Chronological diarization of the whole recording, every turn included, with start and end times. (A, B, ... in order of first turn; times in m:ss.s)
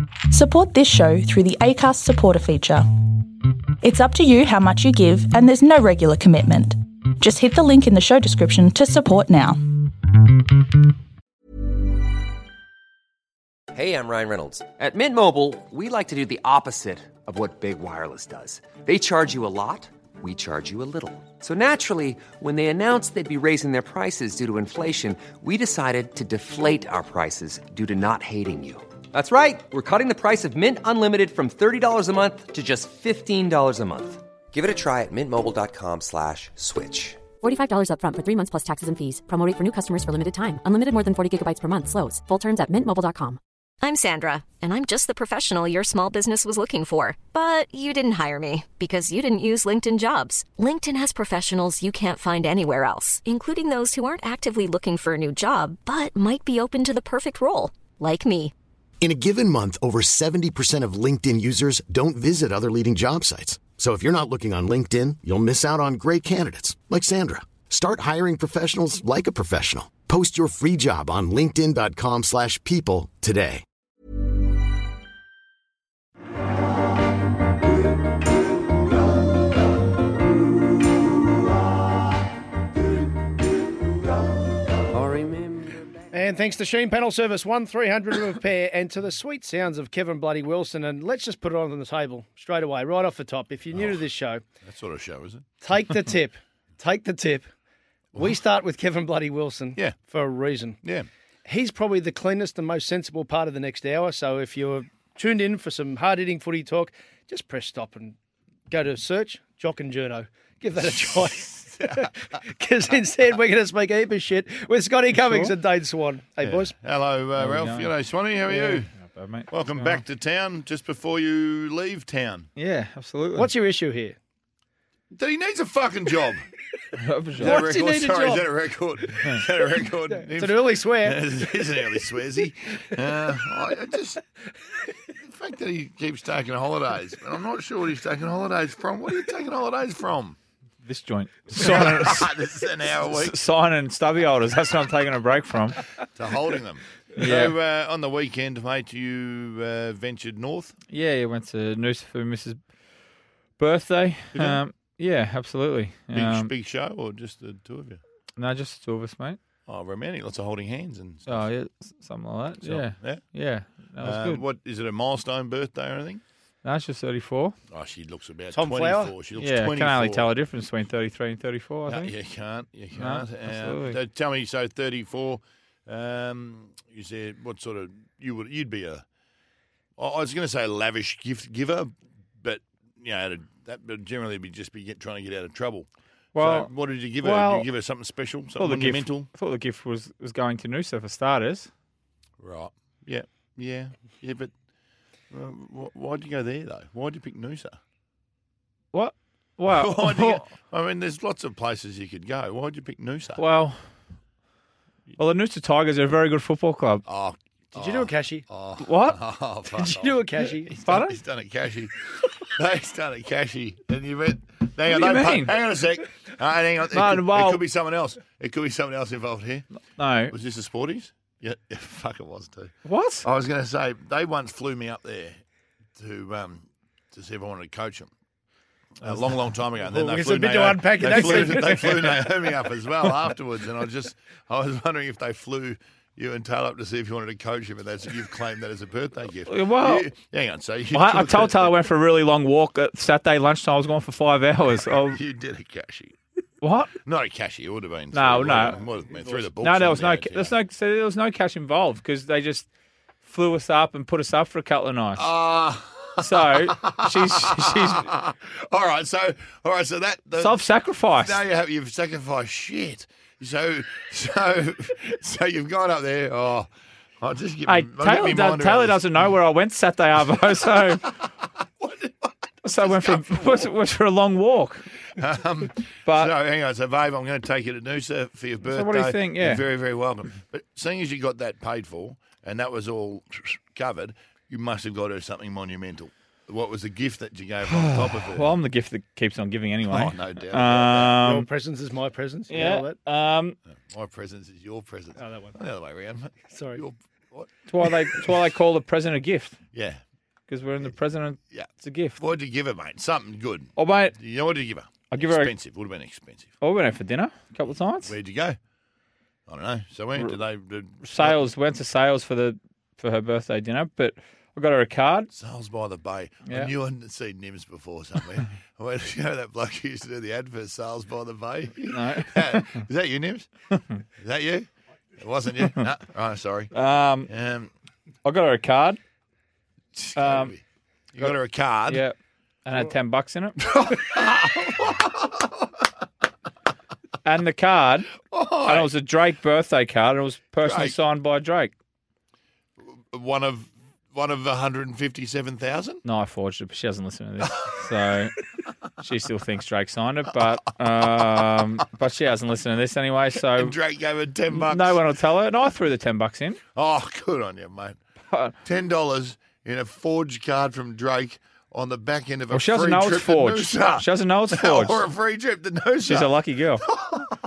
0:00.3-0:09.9 A
0:13.7-0:37.2 B
0:37.4-0:43.4 C
0:43.8-0:58.5 D
0:59.0-1:13.6 E
1:26.1-1:34.4 F
1:33.7-1:34.0 G
1:34.6-1:35.5 G
1:35.6-1:37.5 F
1:38.1-1:38.4 G
1:38.2-1:40.8 F
1:40.8-1:41.1 G
1:41.4-1:48.2 F
1:48.7-1:56.7 F
1:50.7-1:52.1 G
1:55.1-1:55.5 H
1:56.4-1:58.9 G
1:57.4-1:57.9 H
1:58.5-2:00.0 H
1:59.5-2:02.5 G
2:02.6-2:03.5 H
2:03.3-2:04.2 F
2:05.1-2:06.4 G
2:07.0-2:07.7 H
2:07.4-2:14.2 G
2:07.4-2:08.5 F
2:09.2-2:11.4 F
2:15.2-2:20.4 G
2:20.8-2:22.3 H
2:21.5-2:23.4 G
2:22.9-2:25.8 H
2:26.1-2:30.8 G
2:27.2-2:27.5 H
2:30.9-2:32.6 H
2:33.6-2:36.5 H
2:34.3-2:34.6 G
2:36.1-2:38.0 G
2:38.4-2:39.4 H
2:39.7-2:41.5 G
2:41.3-2:44.4 H
2:42.6-2:43.2 G
2:44.0-2:46.2 G
2:46.6-2:47.5 H
2:47.7-2:50.3 G
2:48.5-2:49.1 F
2:49.4-2:52.1 H
2:51.9-2:59.0 G
2:52.9-2:54.0 H
3:00.0-3:09.3 G
3:06.3-3:06.7 H
3:07.2-3:07.6 H
3:08.6-3:11.7 H
3:12.4-3:14.5 G
3:15.3-3:17.8 G
3:18.9-3:20.4 H
3:19.7-3:23.4 G
3:23.4-3:23.8 H
3:25.2-3:27.0 H
3:27.0-3:39.6 G
3:27.7-3:28.4 F
3:28.8-3:29.2 H
3:29.8-3:30.7 F
3:30.8-3:31.2 H
3:34.8-3:35.5 H
3:36.9-3:37.6 H
3:40.0-3:40.3 H
3:40.3-3:45.4 G
3:42.8-3:43.2 H
3:46.0-3:48.1 G
3:49.0-4:01.8 G
3:49.8-3:52.6 F
3:51.0-3:51.8 H
3:59.5-4:00.1 H
4:00.9-4:05.2 H
4:05.0-4:06.2 G
4:06.6-4:06.9 H
4:07.0-4:10.5 G
4:08.1-4:08.8 H
4:09.1-4:09.5 F
4:09.6-4:12.7 H
4:13.2-4:15.3 H
4:15.2-4:29.3 G
4:16.2-4:18.1 H
4:20.4-4:21.4 H
4:27.6-4:31.1 H
4:30.8-4:31.2 G
4:31.8-4:33.7 G
4:32.6-4:34.9 H
4:35.1-4:48.5 G
4:36.0-4:36.3 H
4:38.6-4:39.6 H
4:47.7-4:51.5 H
4:49.9-4:51.2 G
4:51.2-4:53.0 F
4:52.5-4:53.6 H
4:53.7-4:57.9 G
4:55.2-4:55.6 F
4:56.5-4:56.8 F
4:57.7-4:59.6 H
4:59.7-5:00.0 G
5:00.5-5:02.2 H
5:01.5-5:06.5 G
5:03.8-5:04.1 H
5:05.1-5:05.5 H
5:06.6-5:08.1 H
5:08.0-5:08.6 G
5:09.5-5:11.4 G
5:11.0-5:15.3 H
5:15.3-5:23.5 G
5:16.4-5:16.7 H
5:21.9-5:22.8 H
5:23.7-5:24.0 H
5:24.2-5:26.7 G
5:26.7-5:27.3 H
5:27.3-5:27.7 G
5:28.2-5:29.0 H
5:29.9-5:32.0 G
5:30.2-5:30.5 H
5:31.9-5:33.7 H
5:33.6-5:35.7 G
5:37.2-5:41.7 H
5:38.2-5:38.9 G
5:40.6-5:41.0 G
5:42.8-5:46.0 G
5:46.0-5:48.3 H
5:47.4-5:47.8 G
5:49.0-5:53.7 H
5:50.8-5:51.8 G
5:53.4-5:55.0 G
5:54.5-5:56.6 H
5:56.7-5:58.0 G
5:58.3-5:58.6 H
5:58.6-6:07.3 G
6:02.5-6:05.0 H
6:06.0-6:06.9 H